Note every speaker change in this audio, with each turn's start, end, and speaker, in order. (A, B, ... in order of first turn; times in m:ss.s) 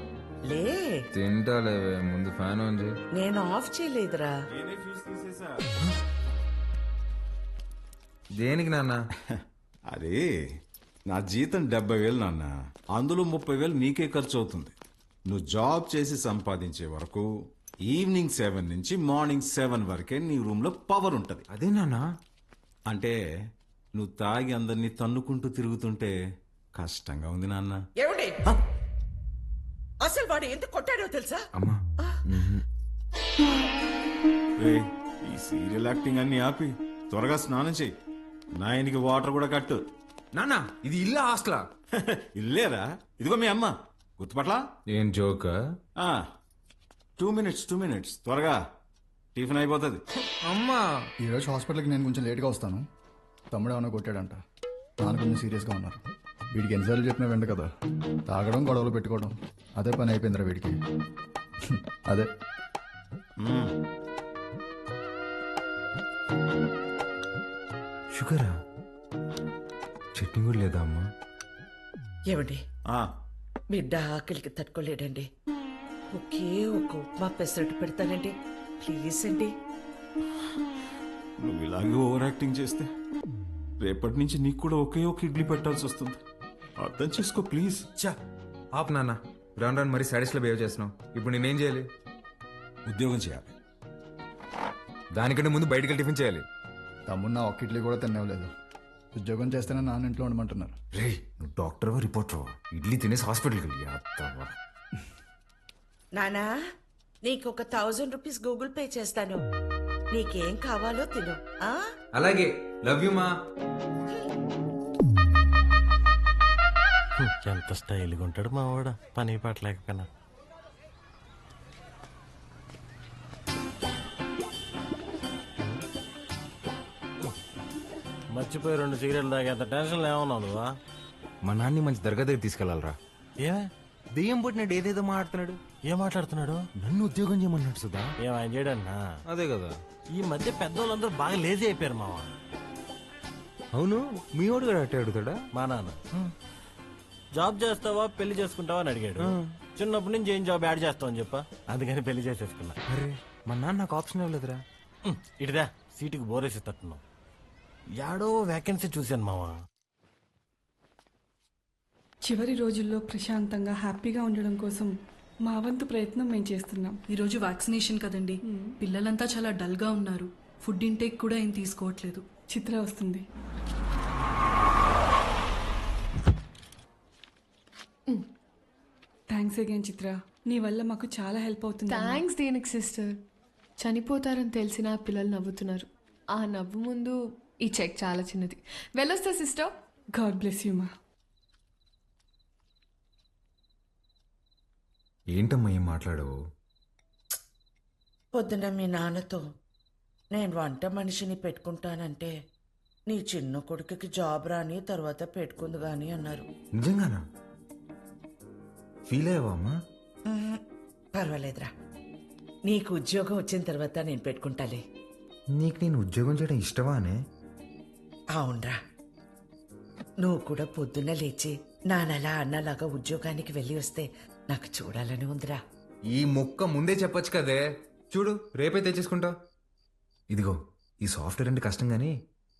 0:00.4-0:01.0 A
0:01.1-0:03.0 B
0:03.1-0:04.3 A
0:04.5-0:05.6 C
0:08.4-0:09.0 B
0:09.9-0:10.3 C
0:11.1-0:14.7 C
0:15.3-0:17.2 C
0:17.8-0:21.4 C
0:21.5-0:22.1 B
0:22.9-0:23.1 C
0:24.0-0:26.1 C
0:26.8-0:27.8 C
0:28.0-0:28.6 A
0:30.0-0:31.4 A
0:31.5-0:32.6 B
0:34.6-0:37.9 C
0:38.6-0:39.8 C
0:40.3-0:41.6 B
0:42.0-0:44.6 C
0:44.9-0:45.6 B
0:46.0-0:46.2 C
0:47.2-0:48.6 C
0:49.3-0:50.0 C
0:50.4-0:50.8 B
0:51.2-0:52.8 D
0:53.5-0:54.4 D
0:55.0-0:56.0 D
0:56.5-0:57.6 D
0:58.3-1:00.8 D
1:01.7-1:02.3 D
1:03.4-1:03.7 C
1:08.1-1:08.6 B
1:10.2-1:11.0 B
1:12.3-1:12.6 A
1:13.7-1:15.3 A
1:16.1-1:19.5 A
1:21.4-1:22.9 C
1:23.8-1:26.2 C
1:26.8-1:27.9 C
1:28.8-1:31.9 B
1:32.8-1:33.5 C
1:35.2-1:36.4 B
1:37.1-1:38.5 D
1:39.1-1:40.7 D
1:41.0-1:44.5 B
1:46.1-1:46.5 A
1:47.2-1:49.4 A
1:50.1-1:51.8 A
1:52.1-1:53.3 B
1:57.2-2:00.0 E
2:08.3-2:10.7 E
2:11.4-2:12.9 B
2:14.2-2:15.6 B
2:15.9-2:16.6 E
2:16.8-2:18.1 B
2:18.2-2:19.0 E
2:19.3-2:19.7 B
2:20.2-2:22.3 E
2:23.7-2:25.4 B
2:25.5-2:26.3 E
2:27.4-2:32.8 E
2:29.2-2:29.5 B
2:32.9-2:34.6 B
2:35.1-2:37.0 E
2:38.0-2:39.5 E
2:42.2-2:44.9 F
2:45.5-2:46.9 F
2:47.1-2:52.2 G
2:52.5-2:53.2 F
2:59.3-3:02.2 F
3:01.9-3:03.1 H
3:03.8-3:09.7 H
3:10.2-3:10.9 F
3:15.3-3:16.3 B
3:18.3-3:19.4 A
3:20.3-3:22.3 A
3:23.1-3:26.4 A
3:26.8-3:27.2 B
3:29.1-3:29.7 B
3:30.3-3:30.6 A
3:31.1-3:31.7 A
3:32.6-3:34.8 A
3:35.6-3:37.2 B
3:38.3-3:38.8 A
3:40.2-3:45.6 A
3:46.1-3:49.3 B
3:50.3-3:52.1 B